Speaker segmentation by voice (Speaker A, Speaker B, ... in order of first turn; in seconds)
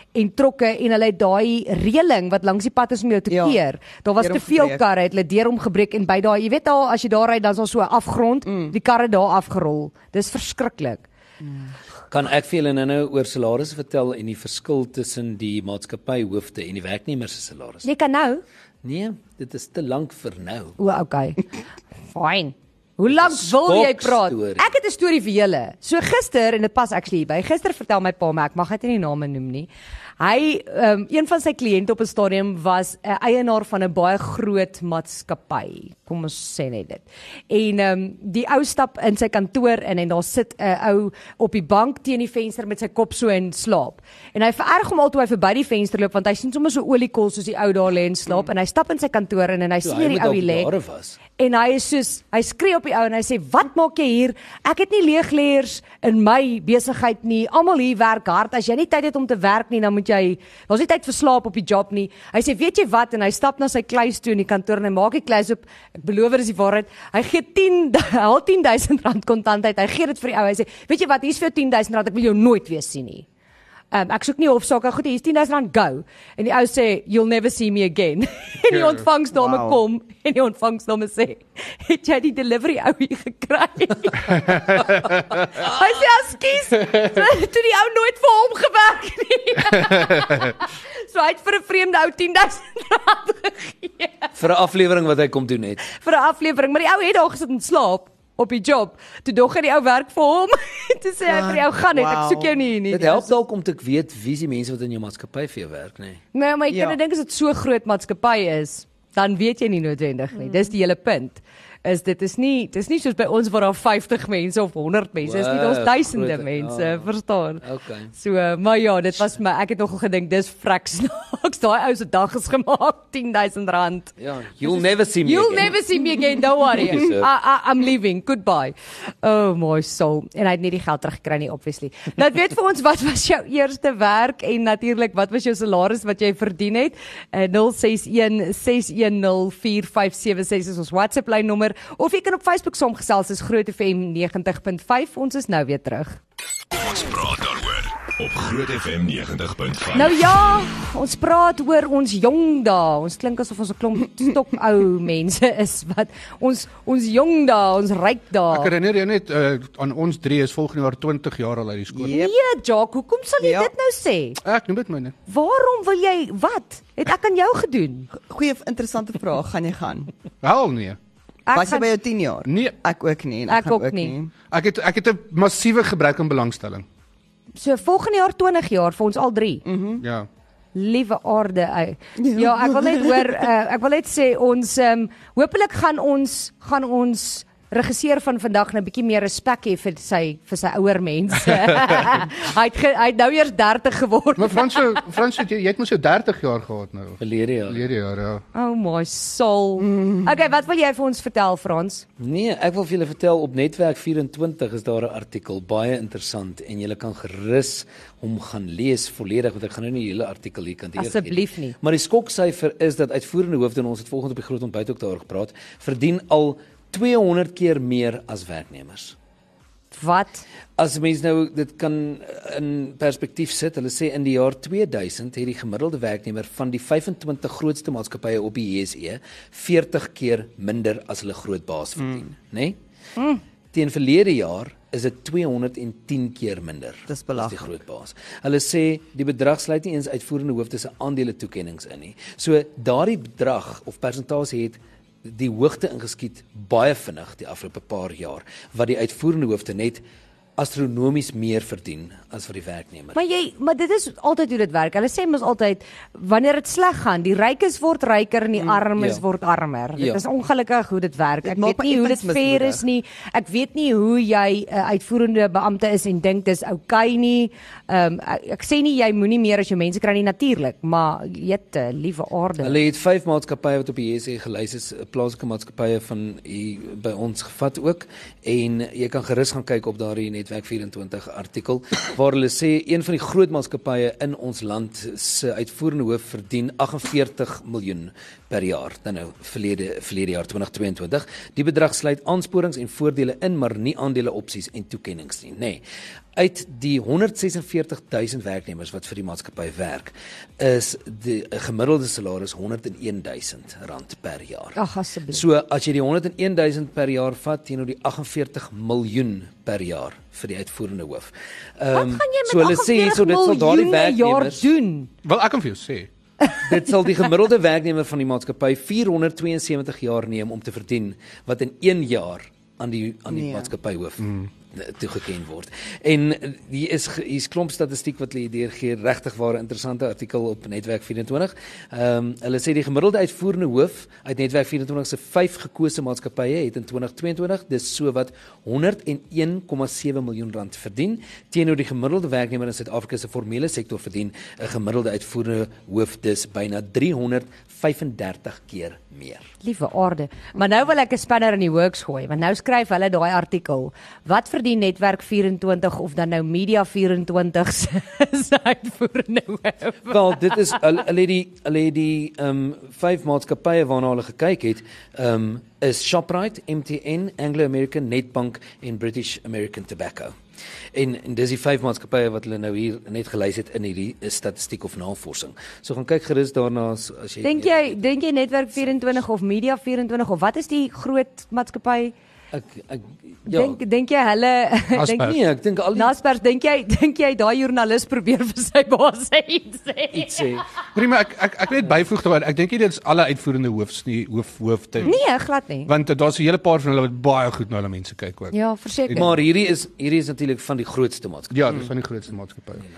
Speaker A: 0.1-11.1, 17.8-18.4, 20.8-21.4, 22.1-29.7, 30.2-50.7, 51.4-73.3, 73.9-84.9, 85.5-94.3, 95.8-103.3, 106.3-117.6, 118.1-146.2, 149.9-158.7, 162.1-164.4, 165.3-168.1, 171.5-171.9, 173.5-174.2, 177.6-179.6, 180.8-194.8, 198.5-202.1, 211.0-211.8, 219.9-220.4, 253.1-272.8, 304.8-305.4, 311.9-315.1, 349.6-360.7, 377.4-382.1, 383.5-385.4, 385.9-390.6, 395.0-395.9, 398.5-399.3
Speaker B: 3.3-3.6, 4.2-4.8, 8.5-8.7, 79.3-79.8, 101.3-102.6, 106.7-107.0, 161.9-162.3, 163.4-163.7, 168.2-170.1, 171.5-174.3, 179.7-180.0, 182.2-183.4, 237.1-237.7, 261.4-262.9, 323.3-323.7
Speaker C: 12.1-17.9, 18.8-20.8, 23.1-24.6, 49.8-51.2, 94.4-95.8, 102.9-106.2, 115.2-117.1, 117.6-118.1, 124.2-125.8, 126.7-127.3, 197.2-197.8, 202.2-219.2, 220.8-232.8, 233.7-250.0, 250.6-253.2, 259.0-259.2, 272.6-295.8, 296.4-304.8, 305.3-314.7, 316.6-349.5, 360.1-370.3, 370.9-378.0, 382.5-383.8, 385.2-386.1, 390.1-390.6, 399.1-401.9
Speaker D: 84.5-85.2, 158.5-162.2, 164.4-165.1, 170.4-171.0, 172.5-172.8, 174.5-176.9, 180.0-180.3, 194.4-198.4, 315.2-316.1, 324.2-324.5, 384.9-385.4, 390.9-395.2, 395.9-398.6, 399.1-399.3, 401.5-402.9
Speaker E: 146.7-150.3